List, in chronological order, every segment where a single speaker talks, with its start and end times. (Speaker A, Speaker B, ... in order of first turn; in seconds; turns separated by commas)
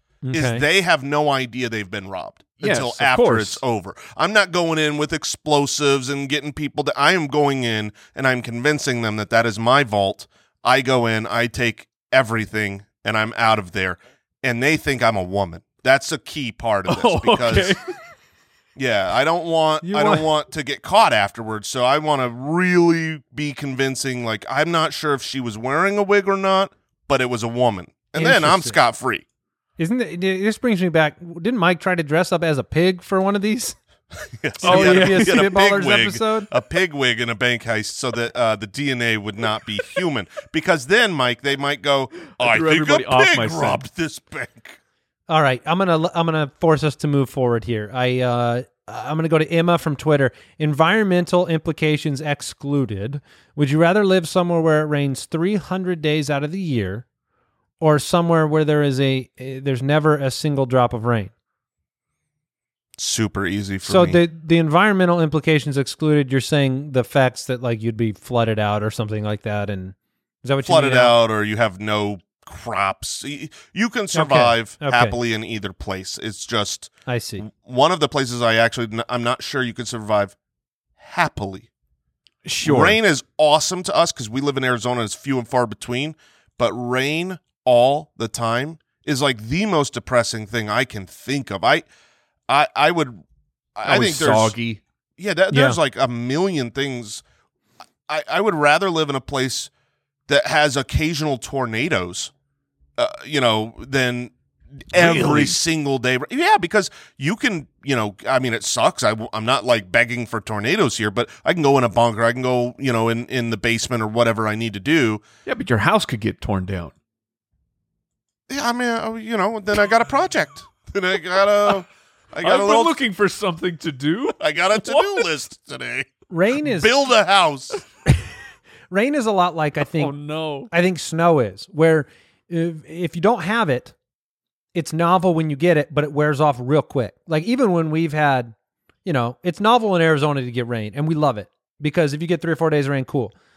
Speaker A: 0.2-0.6, Speaker B: 0.3-17.8, Speaker C: 2.6-3.6, Speaker C: 16.9-17.9, Speaker B: 18.8-29.2, Speaker A: 19.8-20.3, Speaker A: 28.1-28.8, Speaker A: 29.8-33.8, Speaker B: 34.2-44.8, Speaker A: 34.6-36.5, Speaker C: 34.6-35.5, Speaker C: 42.4-43.8, Speaker A: 45.3-57.0, Speaker A: 57.8-61.3, Speaker B: 63.0-64.2, Speaker A: 63.8-71.1, Speaker B: 70.6-80.3, Speaker A: 74.1-75.2, Speaker A: 77.0-77.5, Speaker B: 81.0-81.7, Speaker C: 82.4-83.0, Speaker B: 82.6-91.8, Speaker B: 92.5-93.2, Speaker B: 93.8-94.5, Speaker C: 93.8-94.8, Speaker B: 95.2-97.2, Speaker A: 95.5-95.8, Speaker B: 98.1-99.7, Speaker B: 100.3-102.3, Speaker B: 103.0-104.3, Speaker B: 104.9-115.2, Speaker C: 104.9-105.6, Speaker C: 115.5-116.9, Speaker B: 118.5-123.0, Speaker C: 122.4-125.2, Speaker B: 124.4-127.8, Speaker A: 126.3-127.0, Speaker A: 128.9-130.1, Speaker C: 129.9-130.7, Speaker A: 130.7-133.9, Speaker A: 134.7-138.5, Speaker A: 139.0-143.3